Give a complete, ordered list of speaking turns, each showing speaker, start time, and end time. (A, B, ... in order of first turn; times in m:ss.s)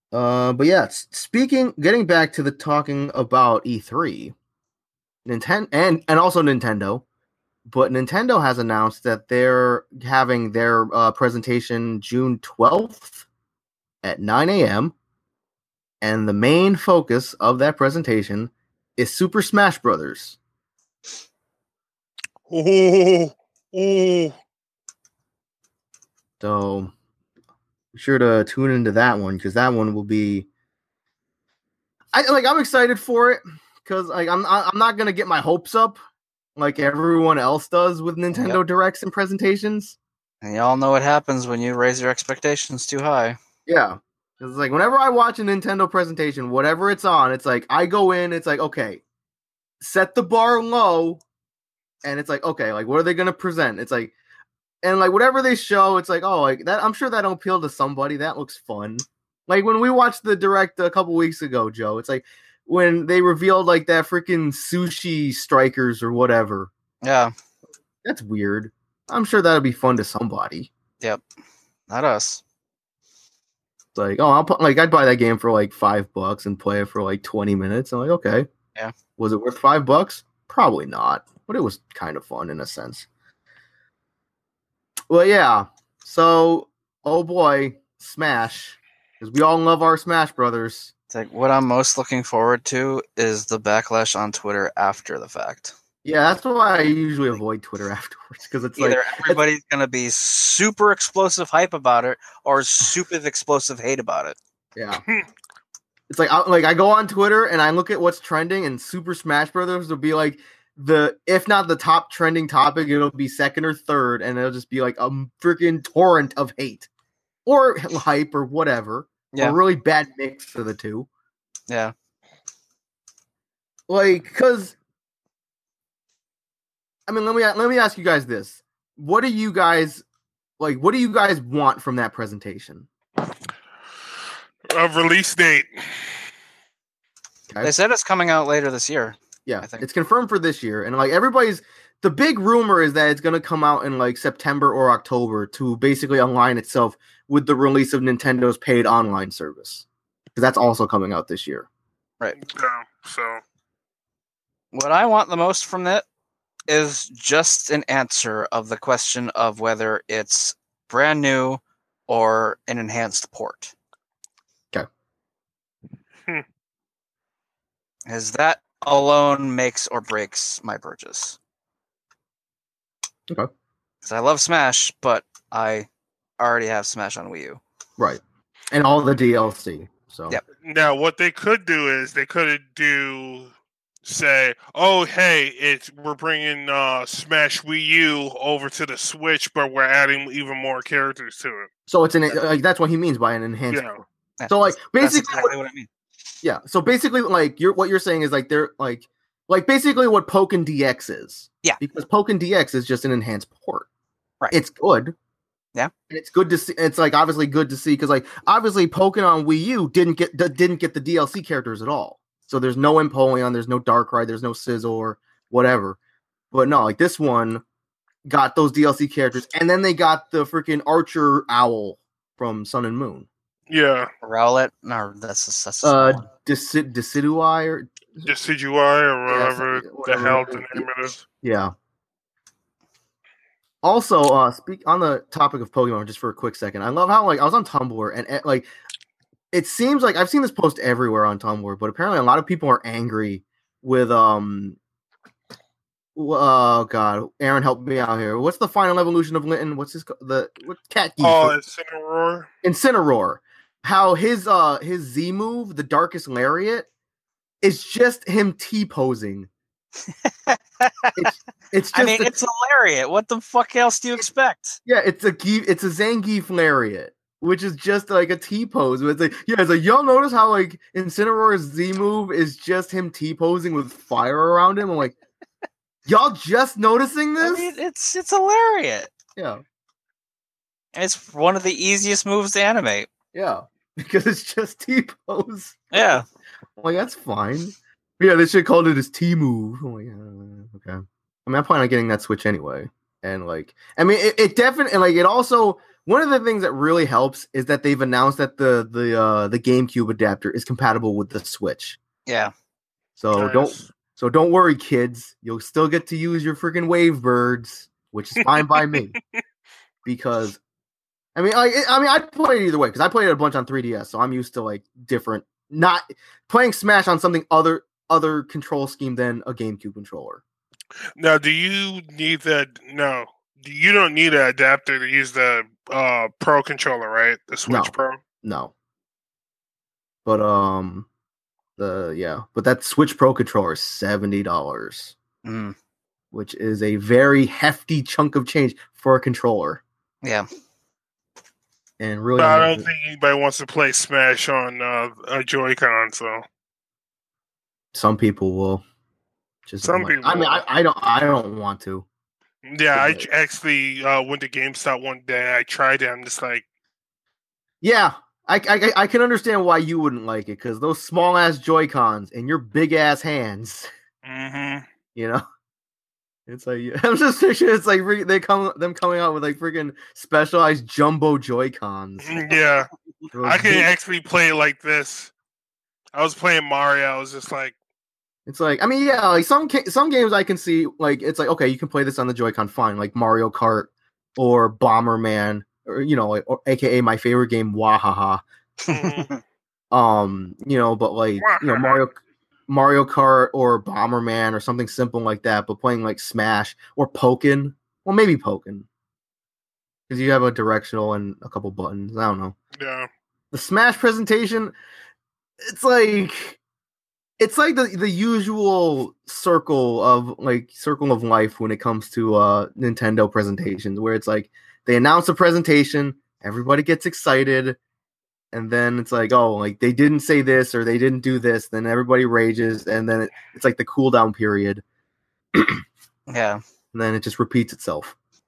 0:00.1-0:04.3 A
0:05.3-0:07.0 A
0:07.7-0:13.2 A
0:14.0-0:15.0 A
0:16.0-0:20.4 A
0:22.5-0:24.4 B
0:26.4-0:26.9 A
0:27.9-0:30.5 A
0:32.1-0:36.0 A
0:36.6-0:40.0 A
0:38.3-0:38.6 C
0:40.4-0:43.4 C
0:43.7-0:49.0 A
0:49.8-0:51.2 A
0:52.0-0:54.1 A
0:54.8-1:06.7 A
1:07.0-1:07.3 C
1:08.0-1:10.7 A
1:11.9-1:12.4 C
1:13.9-1:18.5 A
1:19.2-1:23.1 A
1:25.1-1:30.9 A
1:31.1-1:35.7 C
1:36.0-1:39.4 A
1:38.8-1:44.4 C
1:44.8-1:45.0 A
1:46.1-1:56.9 A
1:57.5-2:01.1 A
1:59.3-1:59.6 C
2:03.9-2:04.8 A
2:07.1-2:10.0 A
2:10.6-2:12.9 A
2:14.7-2:15.7 B
2:17.6-2:19.8 C
2:19.5-2:31.7 A
2:32.4-2:33.4 B
2:34.7-2:36.0 C
2:36.7-2:43.8 C
2:48.1-2:51.4 C
2:54.0-2:55.9 C
2:56.4-2:57.6 C
2:58.0-3:00.4 A
3:00.6-3:03.5 B
3:04.0-3:11.7 B
3:11.9-3:13.9 A
3:13.7-3:14.0 B
3:14.4-3:15.9 C
3:14.5-3:15.5 A
3:16.4-3:23.9 A
3:24.5-3:25.1 A
3:26.1-3:36.0 A
3:36.5-3:37.6 A
3:38.3-3:43.3 A
3:43.7-3:44.1 B
3:44.2-3:46.3 C
3:45.8-3:48.3 A
3:48.2-3:51.2 B
3:49.3-3:50.9 A
3:51.4-3:51.7 A
3:53.8-3:58.7 A
3:59.5-4:04.8 A
4:06.2-4:11.6 A
4:11.2-4:12.5 B
4:12.6-4:16.9 A
4:17.6-4:19.5 A
4:20.1-4:21.3 C
4:21.2-4:22.3 A
4:21.9-4:24.8 C
4:24.9-4:35.2 A
4:36.1-4:37.7 A
4:37.4-4:39.1 C
4:39.4-4:39.6 A
4:41.0-4:43.1 C
4:43.3-4:46.2 A
4:45.9-4:46.2 C
4:46.8-5:02.0 A
5:02.3-5:02.5 C
5:03.2-5:09.2 A
5:03.3-5:03.9 B
5:10.1-5:10.6 A
5:11.4-5:20.4 A
5:21.2-5:28.2 B
5:27.7-5:28.7 A
5:30.3-5:31.1 A
5:31.8-5:35.2 A
5:35.4-5:35.8 C
5:36.3-5:39.8 A
5:42.0-5:42.9 A
5:42.4-5:46.4 B
5:47.9-5:48.8 A
5:49.7-5:52.1 A
5:49.8-5:50.6 B
5:52.7-5:56.6 B
5:52.9-5:53.3 A
5:57.8-6:03.9 A
6:04.2-6:04.8 B
6:05.2-6:05.4 A
6:06.5-6:12.5 A
6:12.2-6:12.9 B
6:13.3-6:13.9 A
6:13.4-6:15.3 B
6:16.1-6:17.8 B
6:18.5-6:28.4 A
6:28.9-6:29.4 C
6:28.9-6:29.3 B
6:29.9-6:32.2 A
6:31.4-6:32.0 B
6:32.7-6:38.9 A
6:40.1-6:42.6 A
6:42.8-6:43.1 B
6:43.5-6:44.7 A
6:45.6-6:46.6 A
6:47.4-6:57.8 A
6:58.5-7:04.8 A
7:05.5-7:05.8 A
7:06.3-7:06.6 C
7:06.9-7:08.2 A